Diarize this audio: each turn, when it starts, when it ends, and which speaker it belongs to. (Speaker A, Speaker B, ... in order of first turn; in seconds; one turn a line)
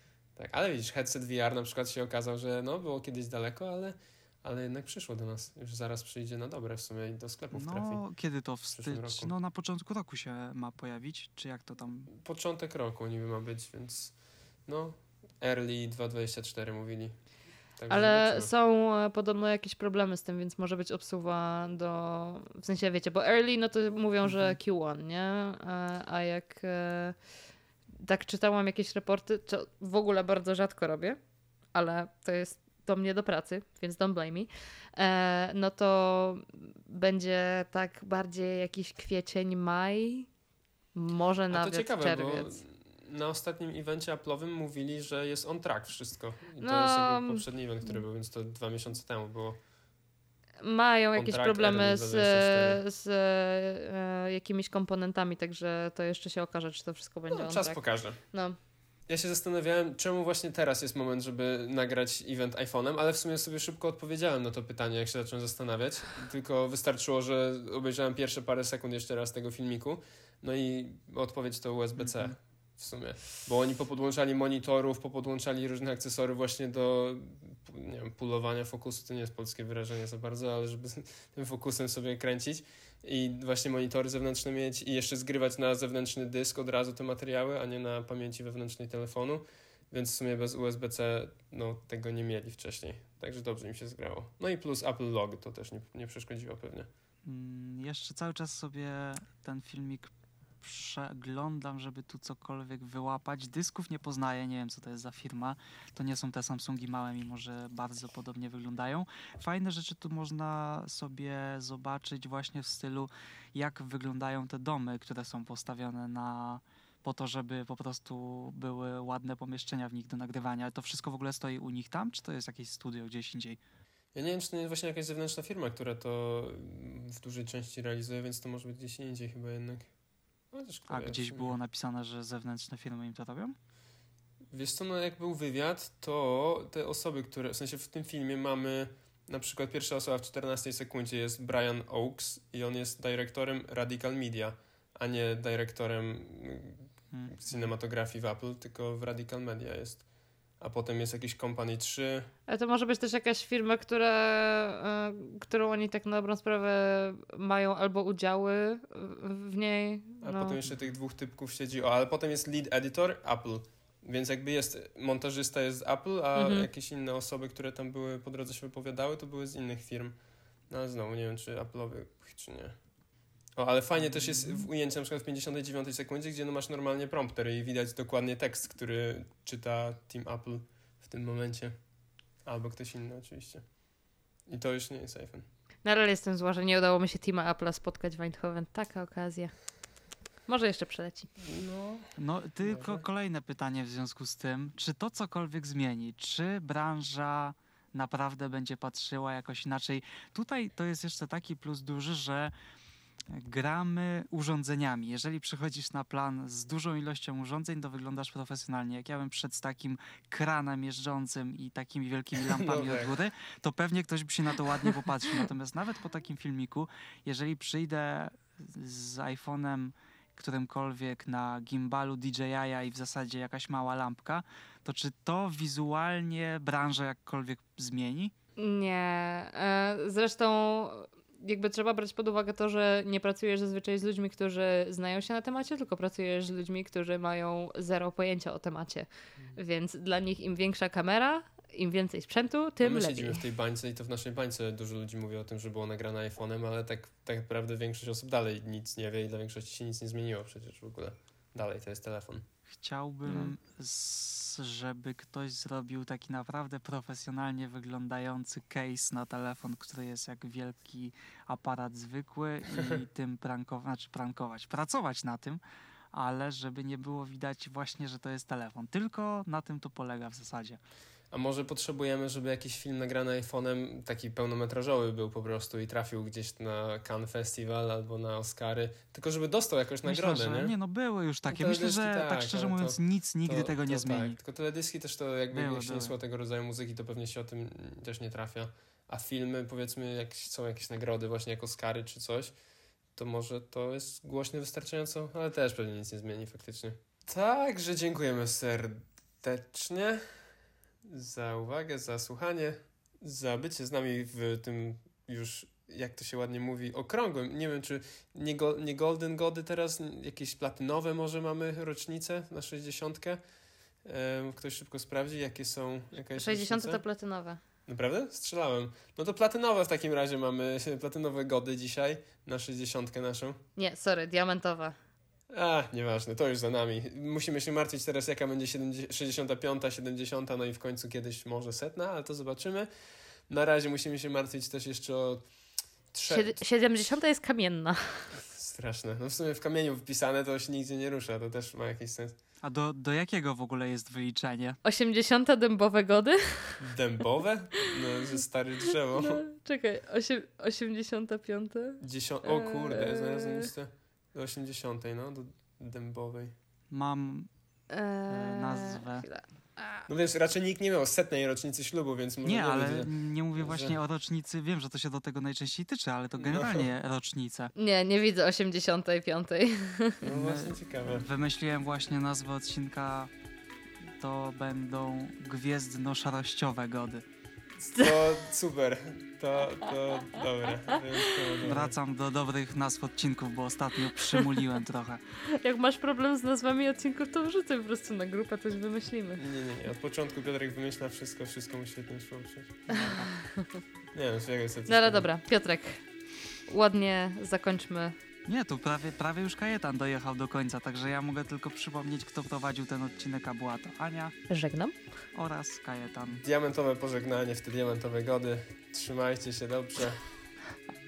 Speaker A: 0.3-8.0
Speaker B: 7.5-12.1
Speaker A: 8.7-9.3
Speaker A: 12.1-17.2
Speaker A: 17.8-18.5
Speaker C: 17.9-27.2
Speaker C: 28.0-31.2
Speaker C: 31.7-40.3
Speaker C: 40.9-42.5
Speaker A: 41.5-49.6
Speaker C: 46.6-48.0
Speaker C: 50.6-58.6
Speaker A: 51.1-52.8
Speaker A: 57.3-58.2
Speaker A: 59.1-96.9
Speaker B: 72.0-72.3
Speaker B: 97.2-123.6
Speaker A: 124.1-129.9
Speaker A: 130.5-131.6
Speaker B: 130.9-133.5
Speaker A: 134.5-150.1
Speaker B: 147.1-147.7
Speaker A: 150.6-152.3
Speaker C: 152.5-160.6
Speaker A: 160.2-170.2
Speaker C: 166.3-166.7
Speaker A: 170.7-172.7
Speaker A: 173.6-181.8
Speaker B: 174.0-174.7
Speaker A: 182.4-183.8
Speaker A: 184.4-185.4
Speaker C: 185.8-189.6
Speaker C: 190.4-191.3
Speaker A: 191.4-193.0
Speaker B: 192.2-202.5
Speaker B: 203.3-228.3
Speaker A: 212.4-213.2
Speaker C: 228.6-243.4
Speaker A: 242.8-252.4
Speaker B: 252.7-265.6
Speaker C: 253.3-253.5
Speaker B: 266.1-270.8
Speaker A: 271.3-280.7
Speaker B: 280.0-284.4
Speaker A: 281.5-292.5
Speaker B: 285.5-286.1
Speaker A: 293.1-300.2
Speaker A: 301.0-313.4
Speaker A: 314.0-317.0
Speaker C: 316.4-317.6
Speaker A: 317.9-323.6
Speaker C: 323.8-324.9
Speaker A: 325.5-332.9
Speaker A: 333.5-335.5
Speaker A: 336.1-336.6
Speaker C: 336.3-338.4
Speaker A: 338.4-342.4
Speaker B: 342.6-344.8
Speaker C: 344.8-346.8
Speaker A: 346.8-349.4
Speaker C: 349.2-353.7
Speaker A: 352.0-356.6
Speaker B: 356.9-357.5
Speaker C: 357.9-360.1
Speaker B: 358.3-359.3
Speaker A: 360.1-364.0
Speaker B: 362.4-367.7
Speaker A: 366.4-366.9
Speaker C: 367.7-370.3
Speaker A: 370.2-371.3
Speaker B: 370.3-373.3
Speaker B: 374.2-377.2
Speaker A: 377.9-381.9
Speaker C: 377.9-378.3
Speaker C: 381.0-381.4
Speaker B: 381.6-385.2
Speaker C: 384.2-384.4
Speaker C: 385.5-389.4
Speaker A: 389.4-392.9
Speaker C: 392.9-393.8
Speaker B: 392.9-393.3
Speaker A: 394.1-395.3
Speaker C: 394.9-396.1
Speaker C: 396.6-398.1
Speaker B: 398.4-404.4
Speaker C: 404.5-404.9
Speaker B: 405.3-406.4
Speaker A: 406.3-410.3